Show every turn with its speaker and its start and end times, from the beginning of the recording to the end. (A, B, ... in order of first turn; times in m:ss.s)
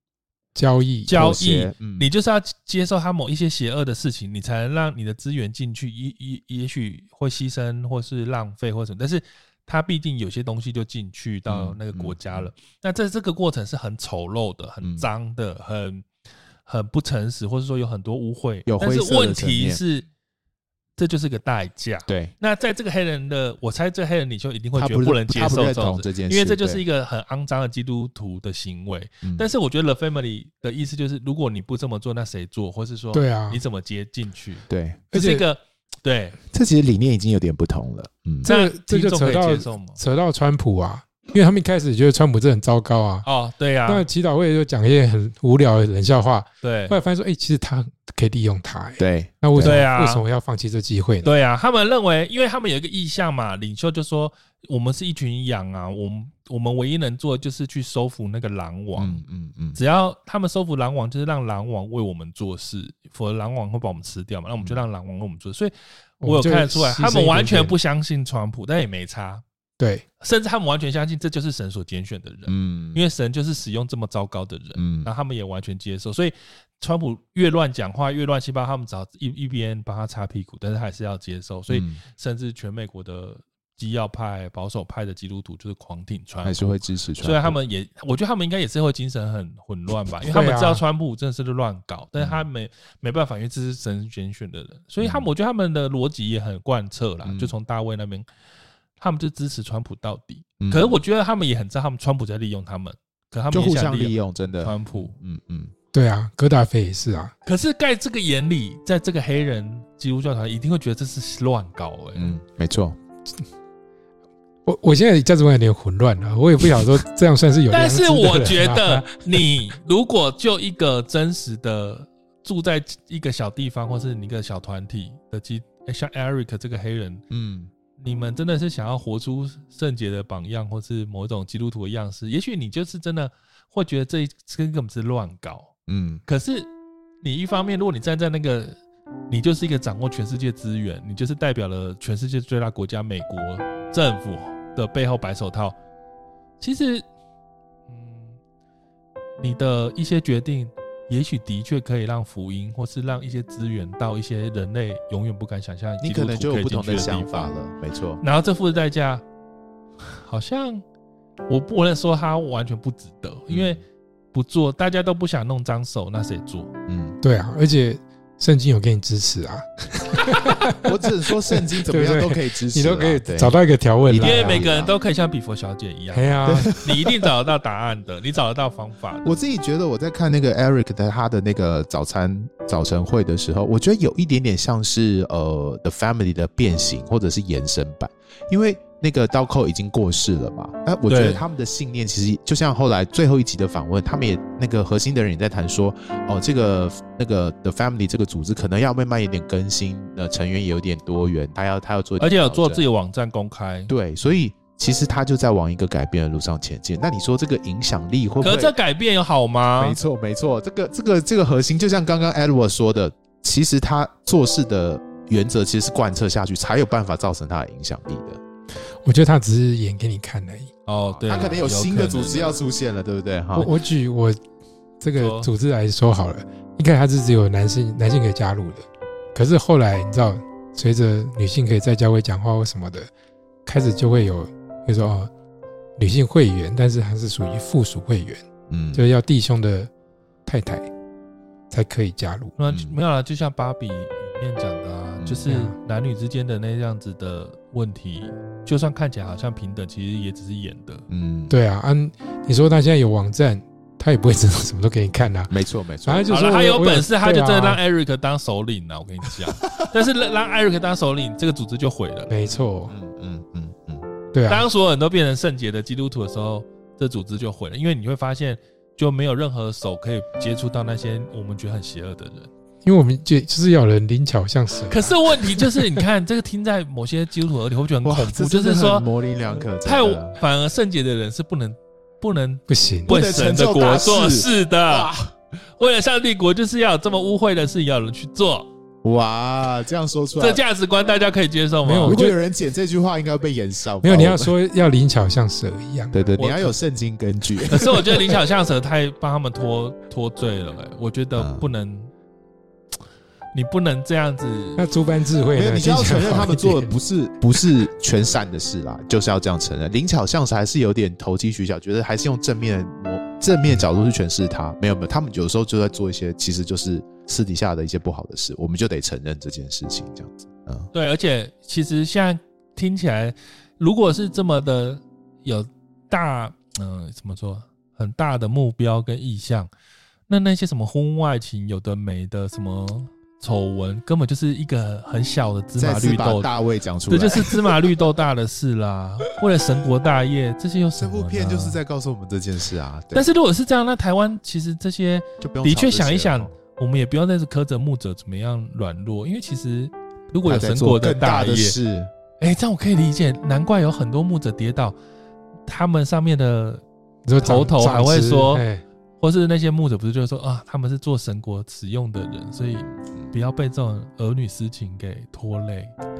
0:00.5-0:01.2 A
0:01.1-0:02.1 B
0:01.1-0:16.0 C
0:11.5-0:12.5 B
0:14.8-0:15.1 B
0:16.6-0:20.1 C
0:18.6-0:19.8 B
0:21.0-0:36.4 C
0:22.1-0:22.3 B
0:24.7-0:26.8 B
0:29.2-0:29.5 B
0:33.1-0:33.6 A
0:34.7-0:35.0 B
0:35.1-0:35.4 A
0:36.5-0:38.5 B
0:38.4-0:43.2 A
0:38.4-0:40.0 C
0:43.2-0:44.0 C
0:43.8-0:51.3 A
0:46.6-0:47.0 C
0:49.0-0:49.8 B
0:49.6-0:50.2 C
0:51.2-0:59.2 C
0:59.0-0:59.8 B
0:59.7-1:09.4 C
1:06.2-1:07.8 A
1:09.8-1:10.0 A
1:10.2-1:38.2 C
1:12.5-1:13.0 B
1:14.8-1:15.1 B
1:21.7-1:22.0 B
1:26.4-1:27.6 B
1:30.2-1:30.8 A
1:32.2-1:32.4 B
1:35.0-1:35.3 B
1:37.2-1:37.5 B
1:39.0-1:45.1 C
1:40.6-1:41.0 B
1:43.5-1:45.7 B
1:45.9-1:47.3 A
1:47.4-1:52.3 C
1:52.2-1:53.0 B
1:54.6-1:59.5 A
1:57.7-2:07.2 C
2:07.3-2:07.7 B
2:08.0-2:15.7 C
2:15.9-2:16.2 B
2:16.2-2:16.7 C
2:17.2-2:18.8 C
2:19.3-2:25.8 C
2:26.6-2:27.0 C
2:27.9-2:28.4 C
2:29.4-2:37.5 C
2:36.0-2:38.2 B
2:38.2-2:39.2 C
2:40.1-2:40.8 C
2:41.5-2:43.8 C
2:43.5-2:43.8 B
2:44.3-2:46.7 C
2:46.9-2:47.2 B
2:47.2-2:54.7 A
2:50.8-2:54.9 B
2:54.2-2:59.4 C
2:56.1-2:56.9 A
2:56.4-2:57.1 B
2:59.2-3:22.8 B
3:11.1-3:11.4 C
3:22.2-3:23.9 C
3:23.9-3:28.7 B
3:28.4-3:30.0 C
3:29.8-3:38.4 B
3:39.0-3:40.7 A
3:40.8-3:42.6 C
3:41.1-3:43.7 B
3:43.5-3:44.4 A
3:45.0-3:53.1 A
3:45.1-3:45.5 C
3:53.6-3:55.3 A
3:56.0-3:59.9 A
3:58.7-3:59.1 B
4:00.4-4:00.9 A
4:01.7-4:02.5 A
4:02.6-4:11.0 C
4:02.7-4:03.0 B
4:05.5-4:05.8 A
4:11.1-4:11.5 B
4:11.5-4:15.5 A
4:15.5-4:16.2 B
4:16.0-4:17.8 A
4:16.3-4:22.3 C
4:22.3-4:22.9 A
4:22.9-4:24.1 B
4:24.3-4:24.7 A
4:24.5-4:32.5 C
4:32.8-4:35.8 A
4:34.9-4:39.1 C
4:38.0-4:40.4 B
4:39.8-4:45.1 C
4:42.7-4:43.2 A
4:43.1-4:45.3 B
4:45.8-4:48.7 C
4:49.0-4:50.6 B
4:50.4-4:52.2 C
4:51.8-4:52.4 A
4:52.0-4:54.5 B
4:54.0-4:56.7 A
4:56.1-4:58.1 B
4:57.7-5:02.1 C
5:01.4-5:01.7 B
5:03.5-5:04.8 C
5:04.8-5:06.9 A
5:05.5-5:20.9 B
5:20.9-5:29.7 C
5:30.3-5:36.5 C
5:35.8-5:38.0 B
5:37.1-5:41.8 C
5:41.0-5:43.2 B
5:43.1-5:51.8 C
5:45.4-5:46.5 B
5:50.4-5:52.1 B
5:52.4-5:55.0 C
5:55.7-5:56.8 C
5:57.2-5:58.8 A
5:57.4-5:58.6 C
5:59.2-6:05.9 C
6:02.9-6:03.3 B